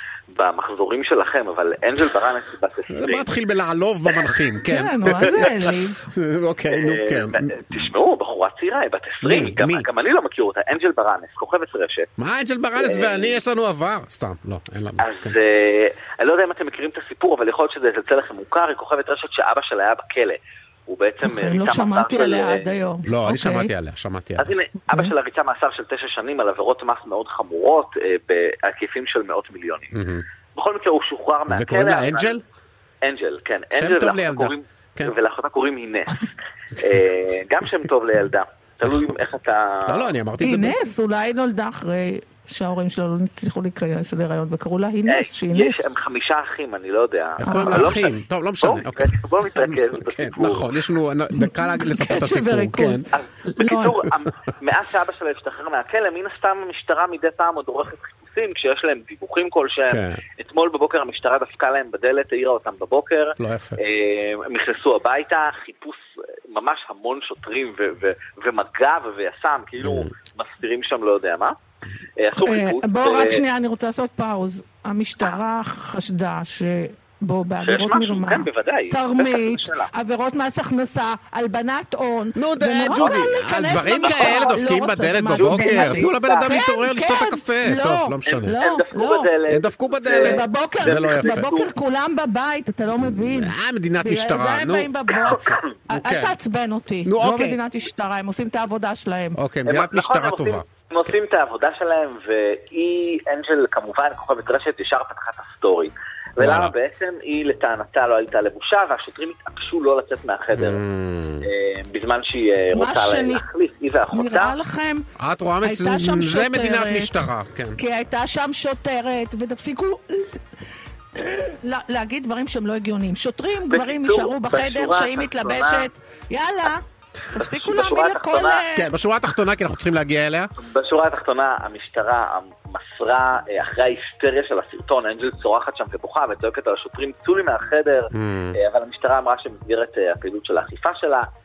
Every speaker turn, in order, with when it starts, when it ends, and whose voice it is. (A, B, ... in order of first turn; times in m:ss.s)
0:00.3-0:03.3 A
0:02.9-0:07.8 B
0:04.6-0:06.0 C
0:05.1-0:05.5 A
0:06.7-0:12.1 A
0:09.2-0:09.9 B
0:12.2-0:15.4 B
0:12.8-0:13.4 A
0:15.0-0:22.7 A
0:21.2-0:23.7 C
0:23.1-0:24.5 B
0:24.4-0:29.9 A
0:29.9-0:30.2 B
0:30.6-0:32.4 A
0:31.5-0:32.4 B
0:33.0-0:36.3 A
0:33.7-0:35.1 B
0:36.8-0:40.1 A
0:39.9-0:40.8 B
0:40.4-0:45.9 C
0:45.1-0:48.1 A
0:47.4-0:53.1 B
0:47.5-0:47.9 C
0:48.6-0:50.7 A
0:51.4-0:54.0 C
0:53.1-1:11.6 A
0:59.9-1:00.2 B
1:03.4-1:03.8 B
1:09.8-1:10.1 B
1:12.2-1:13.4 A
1:12.4-1:29.3 C
1:17.6-1:19.9 A
1:22.4-1:28.6 B
1:24.0-1:24.7 A
1:25.4-1:26.5 A
1:28.3-1:31.7 A
1:29.5-1:31.4 B
1:30.1-1:39.4 C
1:33.0-1:34.9 B
1:35.1-1:35.7 A
1:35.9-1:36.4 B
1:37.1-1:37.6 B
1:39.4-1:41.2 B
1:39.7-1:50.8 A
1:46.4-1:46.7 B
1:50.5-1:51.5 B
1:51.4-1:54.6 A
1:52.7-1:53.4 C
1:54.1-1:55.0 C
1:55.2-1:57.8 B
1:55.6-2:00.4 C
2:01.2-2:08.9 C
2:03.7-2:05.9 A
2:07.4-2:08.6 A
2:08.8-2:10.5 B
2:10.6-2:21.3 A
2:18.1-2:18.6 B